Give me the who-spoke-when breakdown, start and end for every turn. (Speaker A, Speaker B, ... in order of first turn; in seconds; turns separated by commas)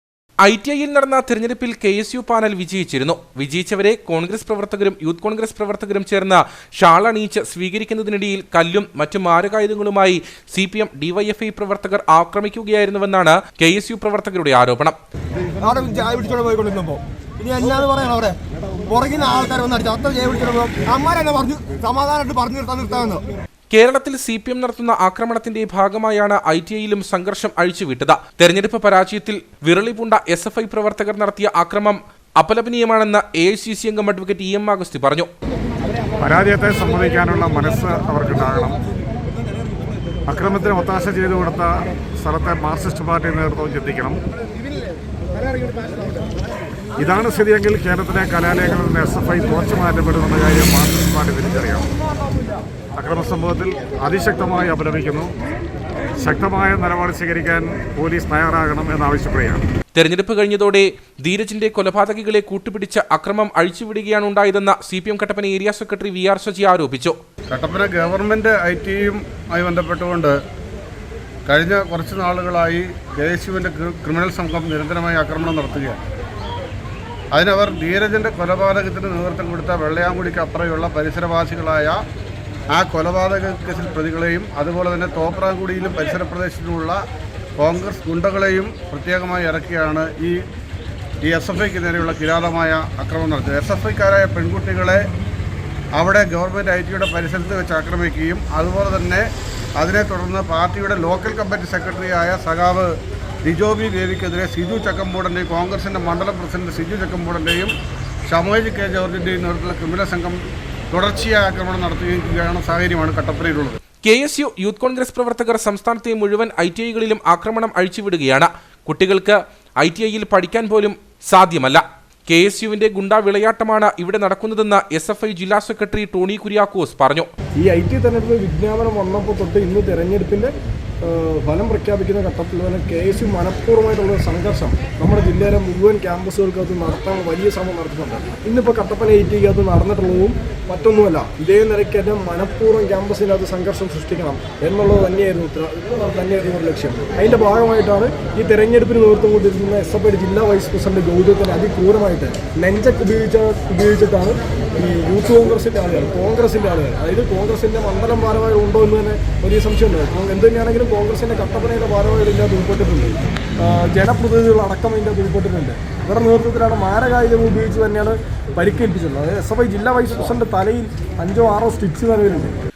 Speaker A: 0.4-15.0, Speaker B: 15.6-23.3, Speaker A: 23.7-35.3, Speaker C: 36.2-38.7, Speaker C: 40.3-41.7, Speaker C: 42.2-44.2, Speaker C: 47.0-51.9, Speaker C: 53.0-55.3, Speaker C: 56.2-59.6, Speaker A: 60.0-67.2, Speaker D: 67.5-70.4, Speaker D: 71.5-76.0, Speaker D: 77.3-82.0, Speaker D: 82.7-87.0, Speaker D: 87.6-90.4, Speaker D: 91.2-95.1, Speaker D: 96.0-99.3, Speaker D: 99.8-102.9, Speaker D: 103.5-107.7, Speaker D: 108.3-110.4, Speaker D: 110.9-113.8, Speaker A: 114.0-127.3, Speaker E: 127.6-172.6